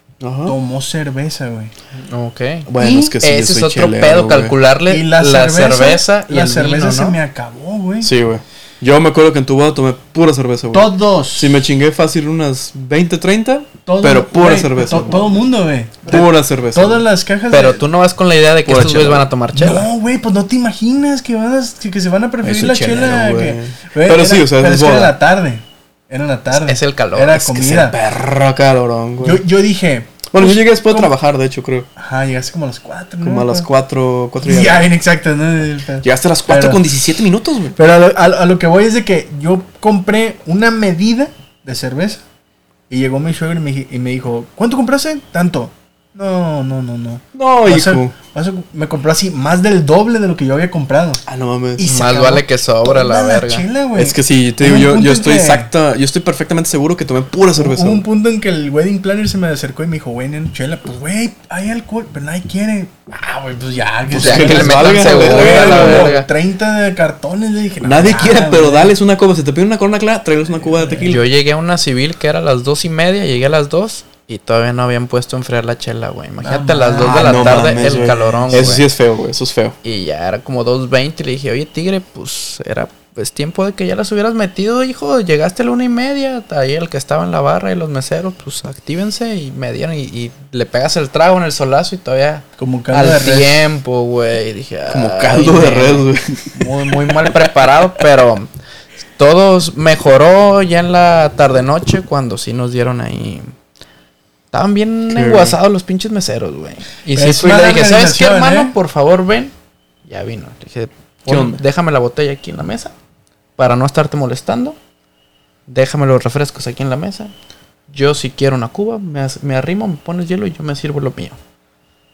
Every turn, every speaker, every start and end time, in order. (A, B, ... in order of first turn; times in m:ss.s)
0:00.2-0:00.6 A
0:00.4-0:01.7 B
0:02.0-0:07.2 C
0:02.7-0:04.5 A
0:04.9-0:08.1 B
0:08.0-0:15.4 A
0:10.7-0:11.6 B
0:13.8-0:17.8 B
0:16.0-0:17.0 A
0:17.5-0:19.9 C
0:18.6-0:19.2 A
0:19.5-0:28.0 B
0:22.4-0:25.1 A
0:26.5-0:27.9 C
0:27.7-0:29.4 A
0:29.2-0:31.1 B
0:30.3-0:31.9 A
0:32.0-0:33.7 B
0:33.2-0:34.9 A
0:34.4-0:36.8 B
0:36.0-0:37.8 A
0:37.8-0:42.2 B
0:42.9-0:51.2 B
0:47.3-0:48.1 A
0:51.3-0:51.8 A
0:51.8-0:55.7 B
0:51.9-0:53.6 C
0:54.0-0:58.0 A
0:57.5-1:08.9 B
1:04.1-1:06.1 A
1:04.1-1:06.3 C
1:07.8-1:11.2 A
1:10.6-1:11.2 B
1:11.0-1:18.9 C
1:16.4-1:18.7 B
1:17.0-1:19.8 A
1:19.8-1:38.5 C
1:32.6-1:33.6 B
1:34.9-1:36.5 A
1:39.2-1:43.5 C
1:44.5-1:49.5 C
1:45.1-1:45.6 A
1:47.1-1:48.7 B
1:50.0-1:52.9 C
1:51.3-1:51.6 A
1:53.6-1:54.8 C
1:55.7-1:57.3 C
1:57.9-2:01.4 C